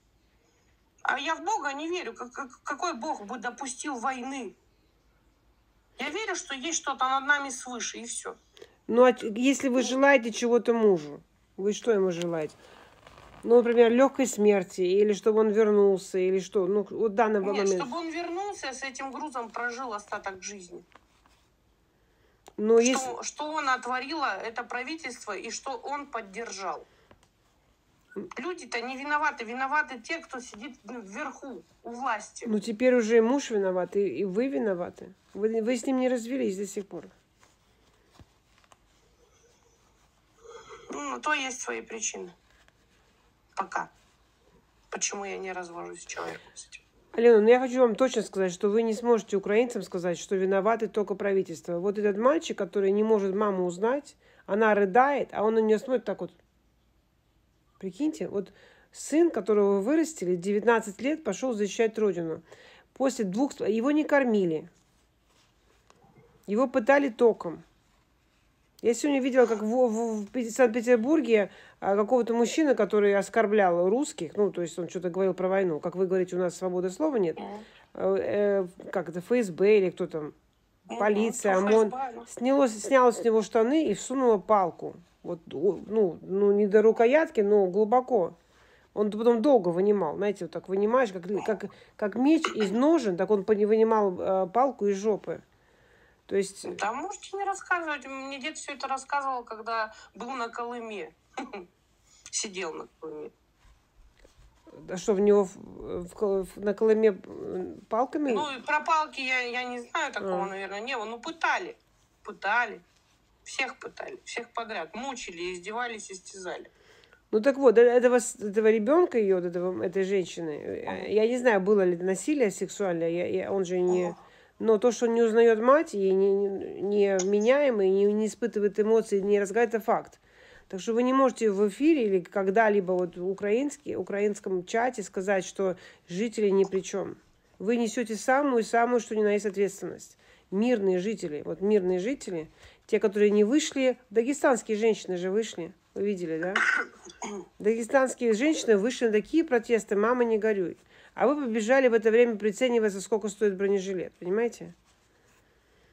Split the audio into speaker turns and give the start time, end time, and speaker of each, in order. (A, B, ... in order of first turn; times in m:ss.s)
0:01.0-0:04.6 A
0:06.0-0:08.4 A
0:08.9-0:12.6 B
0:13.4-0:17.9 B
0:17.4-0:20.9 A
0:22.6-0:23.1 B
0:22.8-0:26.9 A
0:28.3-0:32.5 A
0:32.5-0:37.1 B
0:40.9-0:42.3 A
0:43.6-0:43.9 A
0:44.9-0:46.8 A
0:47.1-0:56.4 B
0:57.8-1:02.4 B
1:02.9-1:04.7 B
1:06.5-1:07.6 B
1:08.8-1:17.4 B
1:17.4-1:17.6 A
1:17.9-1:20.3 B
1:20.9-1:22.3 A
1:21.0-1:28.4 B
1:28.9-1:35.4 B
1:36.3-1:36.8 B
1:36.7-1:41.7 A
1:42.3-1:43.3 A
1:44.7-1:48.5 B
1:48.3-1:52.8 A
1:50.2-1:50.5 B
1:53.4-1:56.7 A
1:57.3-2:26.6 B
2:03.9-2:04.2 A
2:27.6-2:34.7 B